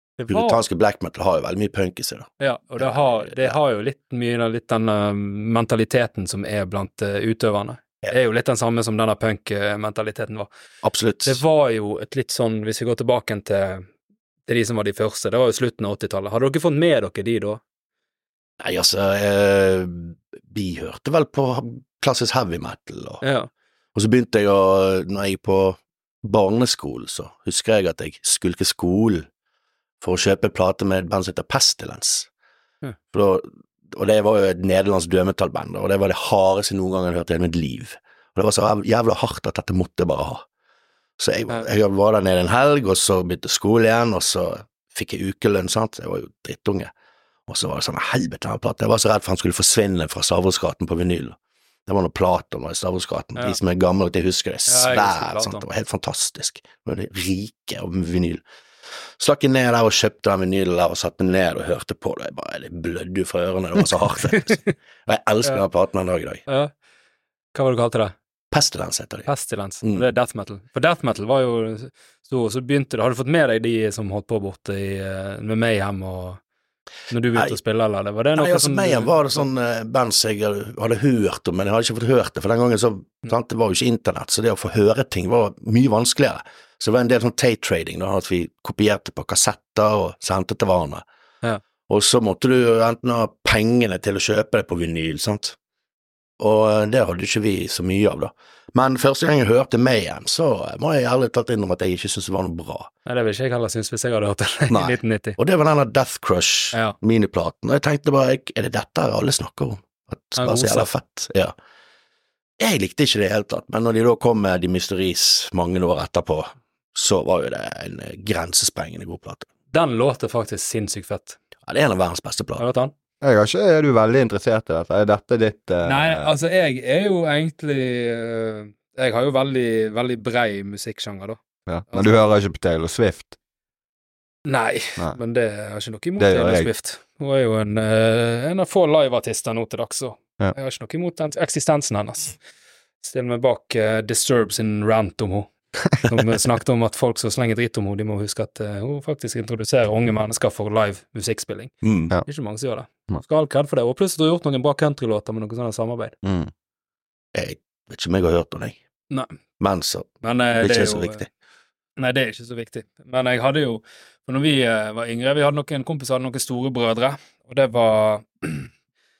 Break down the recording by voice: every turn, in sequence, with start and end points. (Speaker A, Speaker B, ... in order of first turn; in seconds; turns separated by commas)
Speaker A: 0.2-0.6, Speaker B: 0.3-3.5, Speaker A: 2.4-10.5, Speaker B: 10.8-11.4, Speaker A: 11.2-13.9, Speaker A: 14.5-17.6, Speaker B: 18.6-23.2, Speaker A: 23.2-23.5, Speaker B: 23.9-29.3, Speaker B: 30.0-32.3, Speaker B: 33.1-40.4, Speaker B: 41.2-46.9, Speaker B: 47.5-58.4, Speaker A: 54.7-55.6, Speaker B: 59.2-66.4, Speaker A: 64.3-64.7, Speaker A: 66.5-66.7, Speaker A: 67.5-68.1, Speaker B: 68.5-69.3, Speaker A: 69.3-76.4, Speaker A: 77.1-79.5, Speaker B: 78.3-91.0, Speaker B: 91.9-95.5, Speaker B: 96.4-102.9, Speaker A: 103.0-105.4, Speaker B: 104.7-111.5, Speaker A: 110.4-110.9, Speaker B: 112.6-119.5, Speaker A: 119.7-121.4, Speaker B: 121.7-122.6, Speaker A: 122.6-122.9, Speaker C: 123.2-126.3, Speaker A: 125.8-131.4, Speaker C: 131.7-133.3, Speaker A: 131.9-132.2, Speaker A: 134.4-142.4, Speaker C: 136.2-136.7, Speaker A: 143.0-145.5, Speaker A: 146.0-151.7, Speaker B: 151.8-152.1, Speaker A: 152.2-156.2, Speaker C: 156.2-156.5, Speaker B: 157.3-158.8, Speaker A: 159.1-159.3, Speaker B: 159.6-161.3, Speaker A: 160.2-161.2, Speaker A: 162.0-168.7